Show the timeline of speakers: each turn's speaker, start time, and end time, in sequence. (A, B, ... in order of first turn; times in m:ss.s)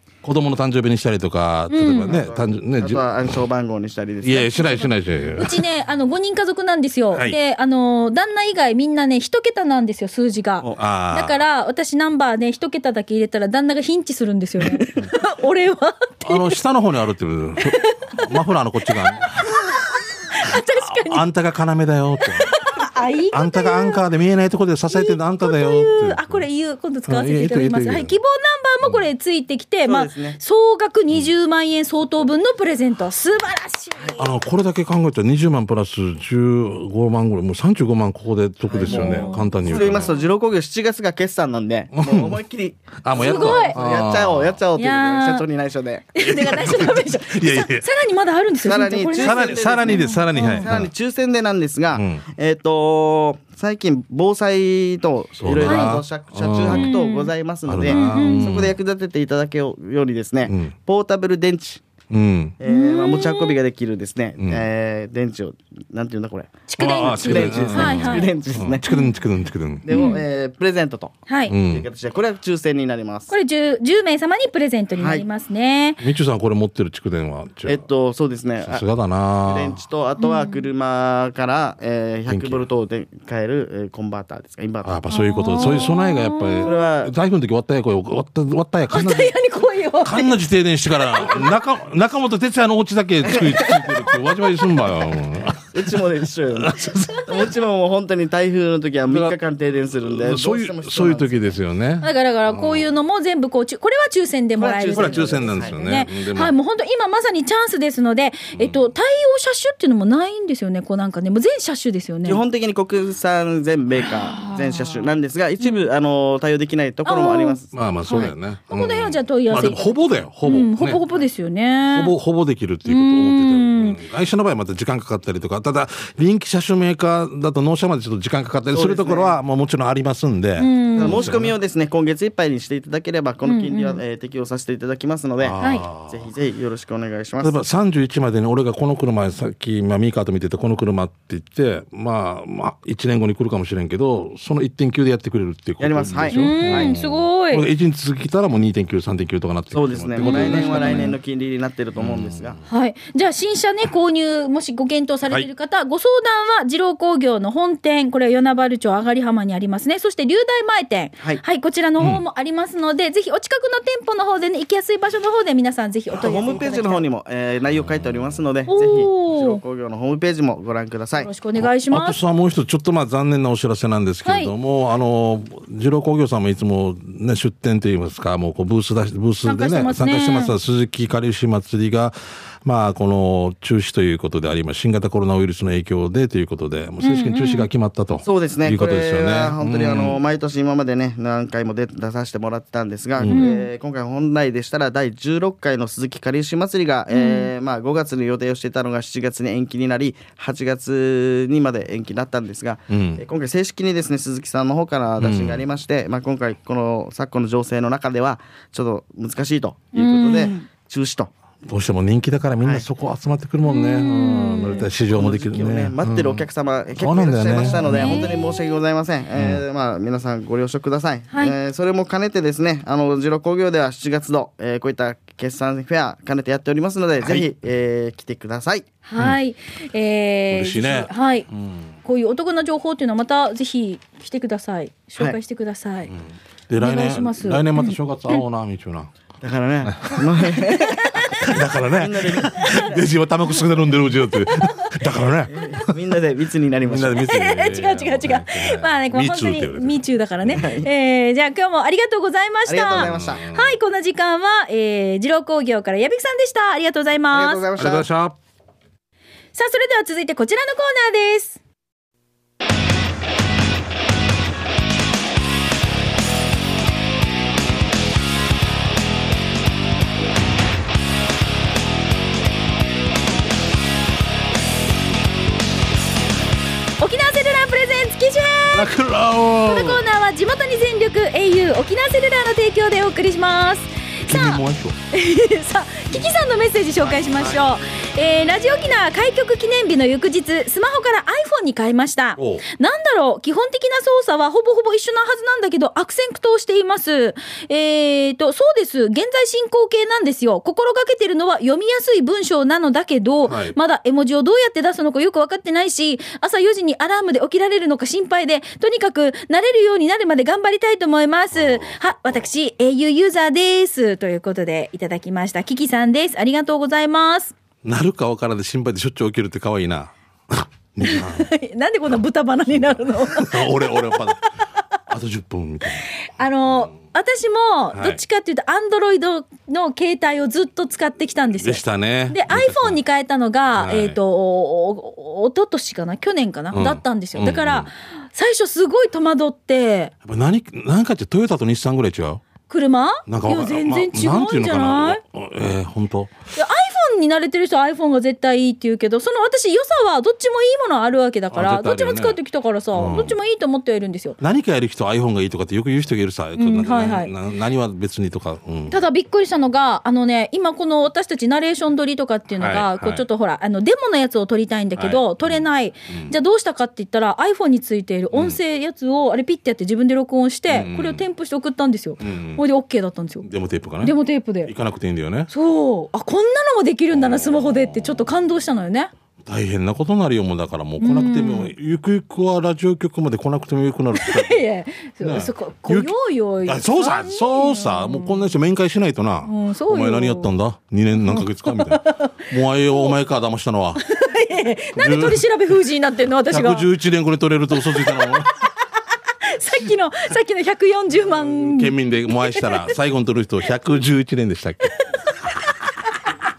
0:00.2-0:03.1 A
0:01.7-0:02.2 B
0:02.0-0:04.9 C
0:04.2-0:05.6 A
0:05.4-0:16.6 B
0:10.8-0:11.4 A
0:16.2-0:19.8 A
0:17.6-0:18.1 B
0:18.9-0:19.5 B
0:20.3-0:21.2 B
0:20.5-0:22.7 A
0:22.4-0:24.0 B
0:23.3-0:26.4 A
0:24.9-0:34.3 B
0:27.1-0:28.2 A
0:29.8-0:30.4 C
0:34.2-0:40.2 A
0:38.7-0:46.2 C
0:38.8-0:40.2 B
0:41.9-0:42.4 A
0:43.0-0:44.6 A
0:43.2-0:43.8 B
0:44.8-0:45.4 B
0:46.1-0:50.7 B
0:46.2-0:47.9 A
0:48.6-1:01.8 C
0:49.2-0:50.9 A
0:51.9-0:52.2 A
0:55.4-0:57.0 A
0:55.6-0:56.0 B
0:56.7-0:57.3 B
0:57.7-0:58.8 A
0:57.9-0:58.6 B
1:00.5-1:00.7 A
1:02.1-1:02.6 A
1:02.6-1:08.8 C
1:02.7-1:03.6 B
1:04.4-1:04.6 A
1:06.7-1:08.3 B
1:06.8-1:10.0 A
1:08.9-1:09.2 B
1:09.8-1:13.3 C
1:09.9-1:10.2 B
1:11.3-1:11.6 B
1:11.5-1:11.9 A
1:13.3-1:16.0 B
1:15.0-1:15.3 C
1:16.0-1:17.9 A
1:17.7-1:18.9 C
1:18.6-1:19.8 A
1:19.4-1:25.0 C
1:20.2-1:20.6 B
1:22.3-1:22.7 A
1:24.8-1:29.3 A
1:25.1-1:26.8 B
1:26.6-1:27.1 C
1:28.9-1:30.4 B
1:30.0-1:36.0 A
1:33.3-1:33.8 C
1:35.6-1:41.6 C
1:36.5-1:37.4 A
1:39.1-1:39.4 A
1:40.0-1:42.9 A
1:42.0-1:52.4 B
1:44.6-1:45.8 C
1:44.9-1:46.5 A
1:52.2-1:58.4 C
1:54.0-1:55.9 B
1:57.0-1:59.9 B
1:57.7-2:01.0 A
2:00.4-2:02.1 B
2:01.9-2:11.6 A
2:02.9-2:04.0 B
2:08.7-2:09.4 C
2:10.6-2:11.3 B
2:11.0-2:17.6 C
2:13.4-2:14.0 B
2:15.4-2:16.3 A
2:15.6-2:15.9 B
2:17.4-2:31.2 A
2:25.8-2:26.9 C
2:26.3-2:27.6 B
2:29.7-2:32.6 C
2:30.2-2:31.1 B
2:32.0-2:32.6 A
2:32.7-2:47.0 B
2:46.1-2:51.3 C
2:47.9-2:48.2 A
2:48.7-2:49.6 B
2:51.2-2:52.2 B
2:51.6-3:10.2 A
2:54.3-2:54.5 B
2:59.4-3:00.5 B
3:07.0-3:07.7 B
3:08.2-3:31.3 C
3:13.2-3:13.4 A
3:13.3-3:13.7 B
3:17.1-3:17.5 B
3:22.9-3:23.2 A
3:25.2-3:25.6 A
3:30.0-3:30.7 B
3:31.6-3:38.2 A
3:33.6-3:34.9 B
3:35.1-3:48.9 C
3:37.6-3:38.8 B
3:39.4-3:39.6 A
3:49.1-3:51.5 B
3:50.5-3:51.9 A
3:52.0-3:56.1 B
3:56.1-3:59.1 A
3:56.8-3:58.4 B
3:59.4-4:02.9 C
3:59.8-4:00.5 A
4:00.7-4:01.5 B
4:01.3-4:06.0 A
4:02.6-4:02.9 B
4:04.4-4:04.9 B
4:05.5-4:07.2 C
4:06.8-4:10.6 A
4:07.2-4:17.6 B
4:10.5-4:10.9 C
4:12.7-4:13.4 C
4:12.9-4:13.8 A
4:17.3-4:18.1 C
4:17.8-4:18.4 A
4:19.6-4:21.6 B
4:37.0-4:38.9 B
4:38.7-4:40.0 A
4:39.6-5:17.6 B
4:44.3-4:45.0 A
4:47.0-4:47.6 C
4:52.4-4:52.6 A
5:03.4-5:03.8 A
5:11.5-5:12.4 A
5:17.8-5:21.5 A
5:21.0-5:24.4 B
5:22.7-5:24.4 A
5:25.1-5:26.1 A
5:26.1-5:40.1 B
5:27.9-5:28.2 A
5:31.6-5:33.0 A
5:33.8-5:34.2 A
5:36.7-5:37.9 A
5:40.2-5:42.4 A
5:42.7-5:45.2 B
5:43.3-5:46.3 A
5:46.6-5:54.4 B
5:51.5-5:52.4 A
5:52.9-5:53.4 A
5:54.4-5:59.0 A
5:56.6-5:57.3 B
5:58.9-6:13.5 B
6:02.6-6:03.2 A
6:05.0-6:06.3 A
6:08.3-6:08.6 A
6:10.7-6:11.2 A
6:12.2-6:12.6 A
6:13.4-6:15.5 A
6:14.0-6:14.7 B
6:15.5-6:19.1 B
6:17.1-6:18.3 A
6:19.4-6:24.6 A
6:21.0-6:21.7 B
6:24.1-6:28.5 B
6:25.2-6:26.1 A
6:26.6-6:34.0 A
6:29.4-6:30.5 B
6:31.2-6:33.1 B
6:34.0-6:36.9 B
6:35.0-6:35.4 A
6:36.5-6:38.5 A
6:37.9-6:38.4 B
6:39.4-6:42.9 B
6:41.3-6:45.0 A